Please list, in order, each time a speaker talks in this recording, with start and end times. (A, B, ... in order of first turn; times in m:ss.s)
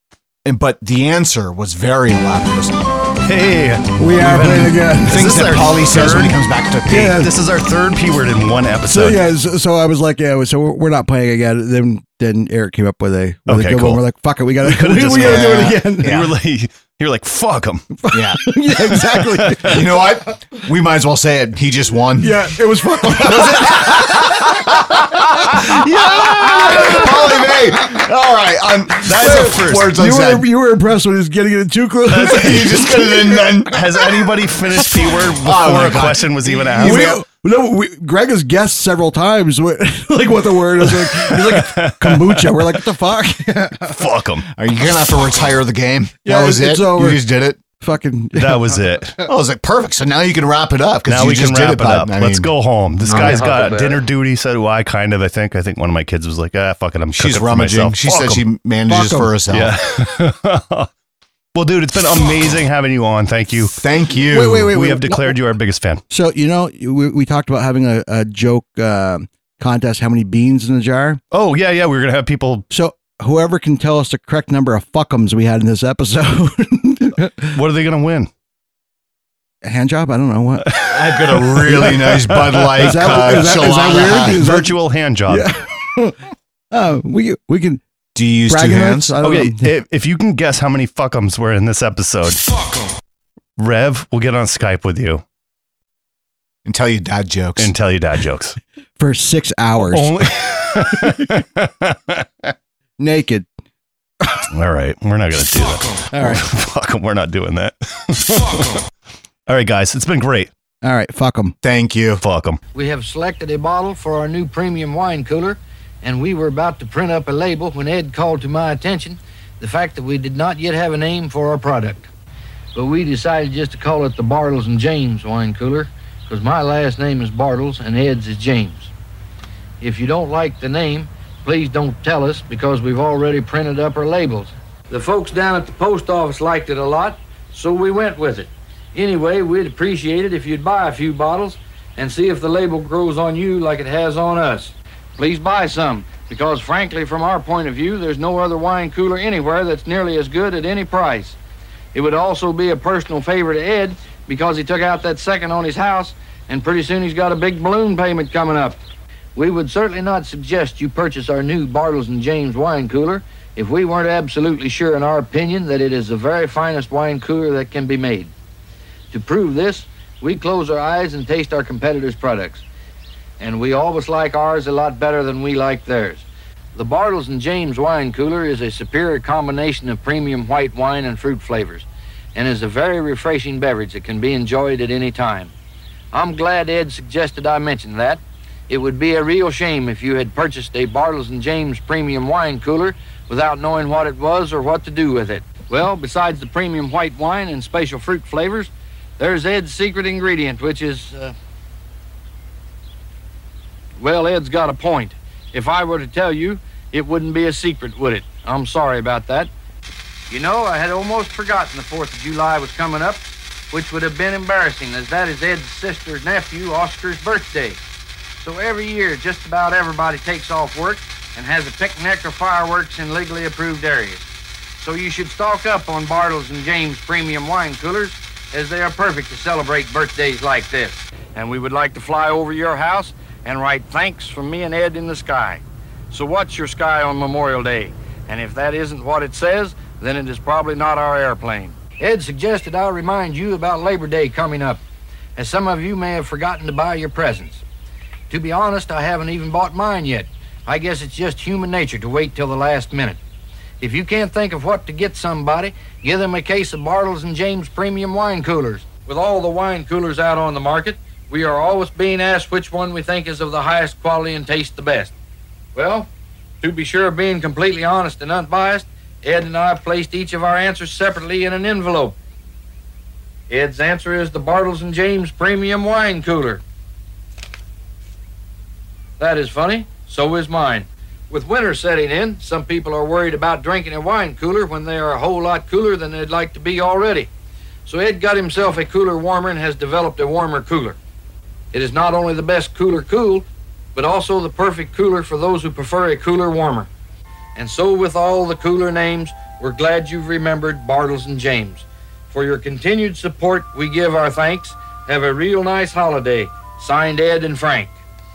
0:00.4-0:02.8 A
0:03.2-0:06.3 B
0:04.0-0:05.2 C
0:05.1-0:07.2 A
0:06.9-0:07.3 C
0:06.9-0:09.2 B
0:08.9-0:16.1 C
0:13.5-0:14.0 B
0:14.6-0:17.9 B
0:15.1-0:16.3 A
0:18.0-0:19.8 C
0:18.1-0:18.4 A
0:19.1-0:19.7 B
0:19.6-0:22.5 A
0:22.2-0:24.6 C
0:23.0-0:30.5 A
0:25.5-0:27.1 C
0:25.7-0:27.1 B
0:29.0-0:29.9 B
0:29.2-0:33.7 C
0:32.1-0:32.7 B
0:32.2-0:34.0 A
0:33.7-0:37.1 B
0:35.4-0:37.2 A
0:36.8-0:44.0 C
0:40.9-0:42.8 B
0:43.9-0:44.5 B
0:44.5-0:47.6 A
0:46.2-0:47.2 C
0:47.8-0:49.0 C
0:48.3-0:49.2 B
0:49.2-0:53.9 A
0:51.1-0:58.4 B
0:57.1-0:59.8 A
0:58.9-0:59.3 C
0:59.5-1:00.9 B
1:01.5-1:03.8 B
1:03.8-1:04.7 A
1:04.3-1:05.4 C
1:04.7-1:06.0 B
1:06.1-1:11.2 C
1:11.3-1:12.6 B
1:12.7-1:17.6 C
1:17.5-1:18.3 B
1:19.6-1:20.7 C
1:20.7-1:25.5 B
1:20.8-1:24.4 A
1:21.8-1:22.2 C
1:22.7-1:24.7 C
1:25.3-1:26.2 C
1:26.7-1:27.8 C
1:28.1-1:29.1 A
1:28.5-1:29.7 C
1:29.2-1:32.4 B
1:33.6-1:35.2 B
1:36.6-1:37.7 A
1:37.6-1:38.6 B
1:39.0-1:40.3 C
1:39.9-1:42.5 B
1:43.0-1:43.4 C
1:44.5-1:48.8 B
1:46.1-1:46.4 C
1:49.5-1:50.5 B
1:50.8-1:51.5 C
1:51.6-1:52.2 A
1:52.2-1:52.6 B
1:52.7-2:02.1 D
2:02.7-2:08.9 D
2:09.8-2:31.4 D
2:31.9-2:38.8 D
2:39.3-2:48.3 D
2:49.1-2:52.6 D
2:53.4-3:05.5 D
3:06.1-3:21.3 D
3:24.0-3:29.5 D
3:30.3-3:37.8 D
3:38.4-3:44.2 D
3:44.8-4:04.8 D
4:05.4-4:07.6 D
4:08.3-4:13.2 D
4:13.8-4:25.1 D
4:25.7-4:26.1 D
4:26.6-4:32.2 D
4:33.5-4:36.6 D
4:39.2-4:47.3 D
4:47.8-4:51.0 D
4:51.7-4:56.9 D
4:57.5-5:08.0 D